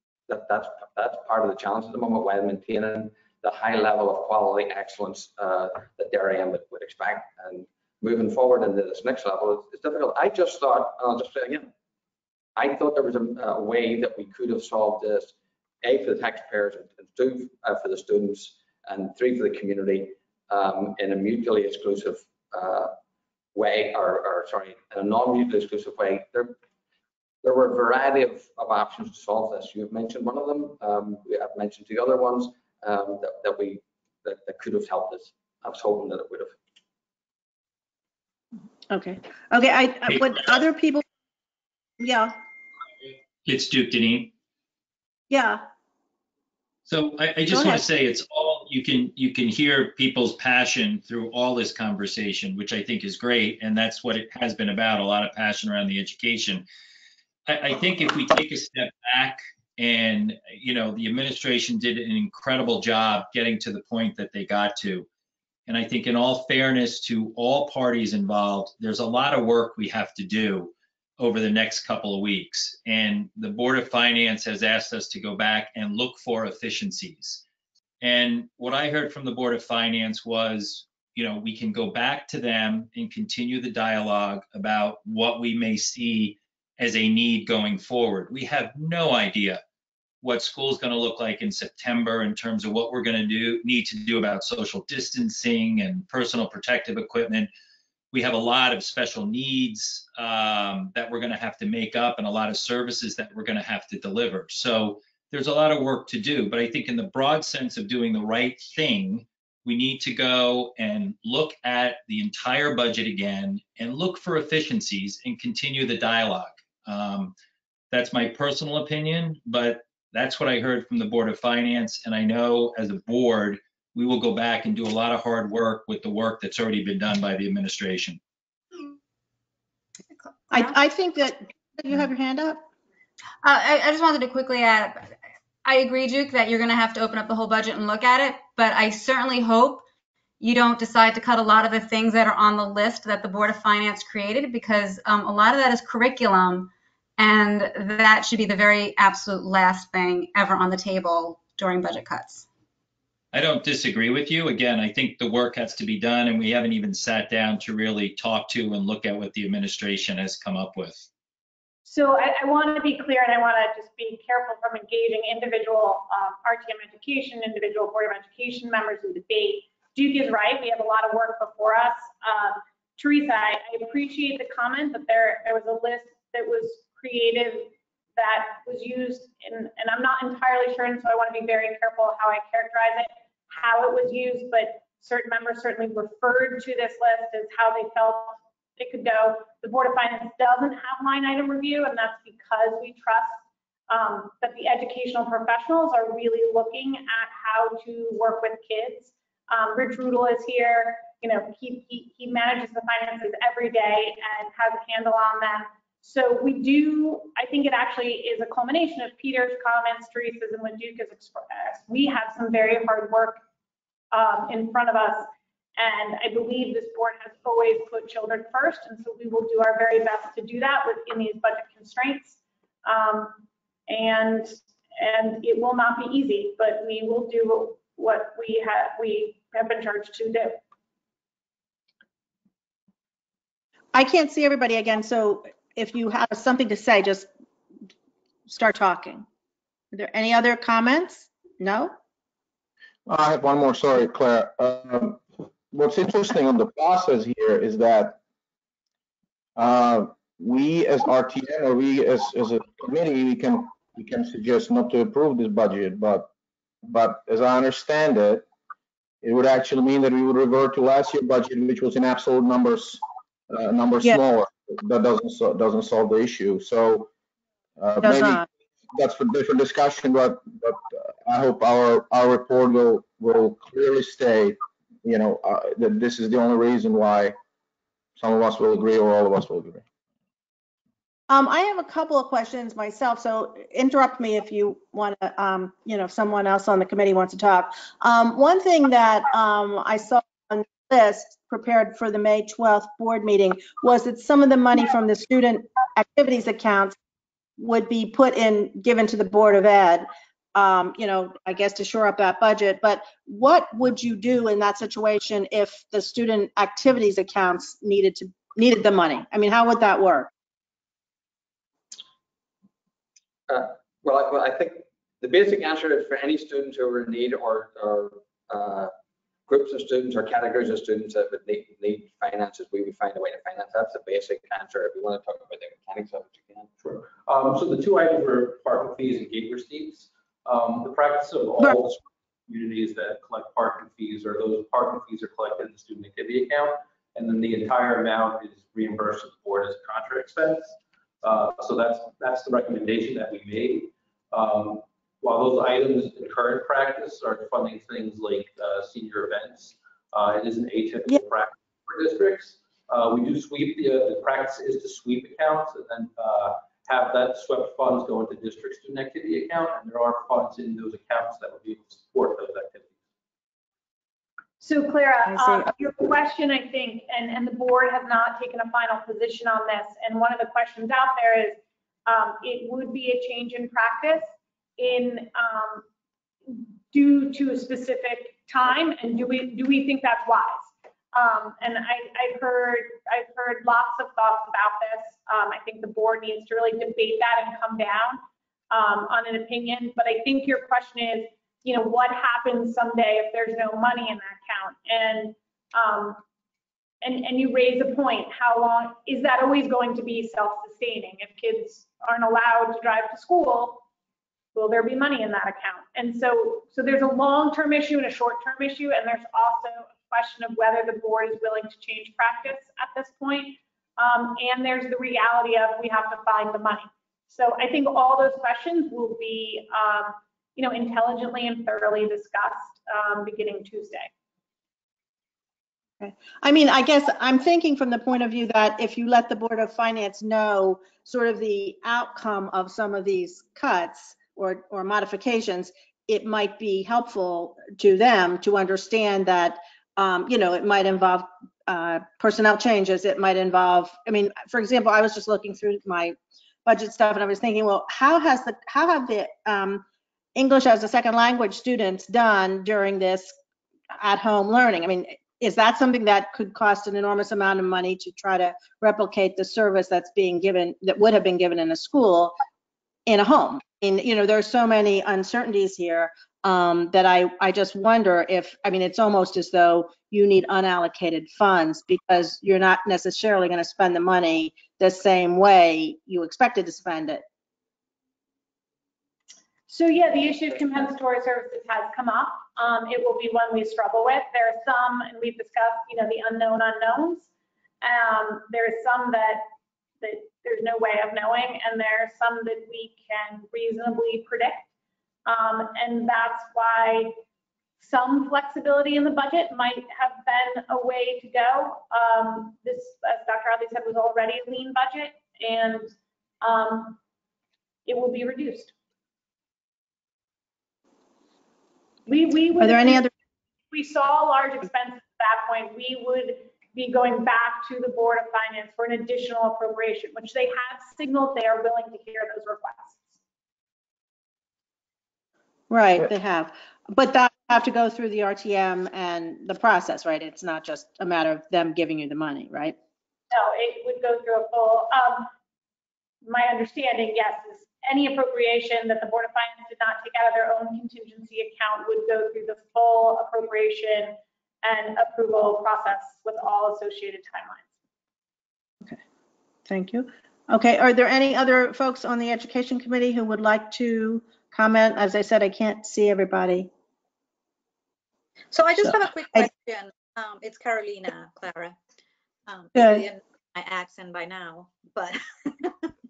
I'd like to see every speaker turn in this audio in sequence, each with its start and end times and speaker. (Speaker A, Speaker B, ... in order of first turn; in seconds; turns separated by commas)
Speaker A: 0.3-11.7, Speaker A: 12.6-22.9, Speaker A: 23.5-26.5, Speaker A: 27.4-36.5, Speaker B: 38.9-41.0, Speaker C: 40.1-40.4, Speaker B: 42.0-42.3, Speaker C: 43.4-44.3, Speaker B: 45.3-45.6, Speaker C: 46.9-56.6, Speaker B: 47.5-47.8, Speaker C: 57.5-65.1, Speaker C: 65.7-77.4, Speaker C: 78.0-89.6, Speaker C: 90.2-97.5, Speaker C: 98.1-117.3, Speaker C: 117.9-128.2, Speaker B: 130.5-132.6, Speaker D: 133.4-139.8, Speaker D: 140.4-152.4, Speaker C: 153.3-161.1, Speaker E: 161.8-213.4, Speaker E: 214.1-230.6, Speaker B: 233.9-237.3, Speaker B: 238.5-239.2, Speaker B: 239.9-241.9, Speaker F: 243.1-248.2, Speaker F: 249.6-256.3, Speaker F: 256.8-258.5, Speaker F: 259.2-267.1, Speaker F: 267.8-277.4, Speaker B: 268.0-268.4, Speaker F: 278.2-279.8, Speaker B: 281.3-297.0, Speaker B: 297.6-310.3, Speaker A: 313.5-318.9, Speaker A: 319.5-326.7, Speaker G: 326.8-362.9, Speaker E: 364.6-375.8, Speaker E: 376.5-396.2, Speaker E: 397.0-403.8, Speaker E: 404.5-424.1, Speaker B: 426.0-453.3, Speaker B: 454.0-462.3, Speaker B: 463.1-477.2, Speaker E: 479.7-487.3, Speaker E: 487.8-489.5, Speaker E: 490.0-494.7, Speaker E: 495.2-497.2, Speaker E: 497.8-507.0, Speaker E: 507.9-508.7, Speaker E: 512.1-513.1, Speaker B: 512.6-513.1, Speaker E: 513.7-523.1, Speaker B: 525.7-532.8, Speaker E: 533.3-535.3, Speaker E: 536.2-547.7, Speaker B: 549.7-556.7, Speaker H: 558.5-561.8, Speaker B: 558.8-559.5, Speaker H: 562.5-565.8, Speaker B: 562.7-563.0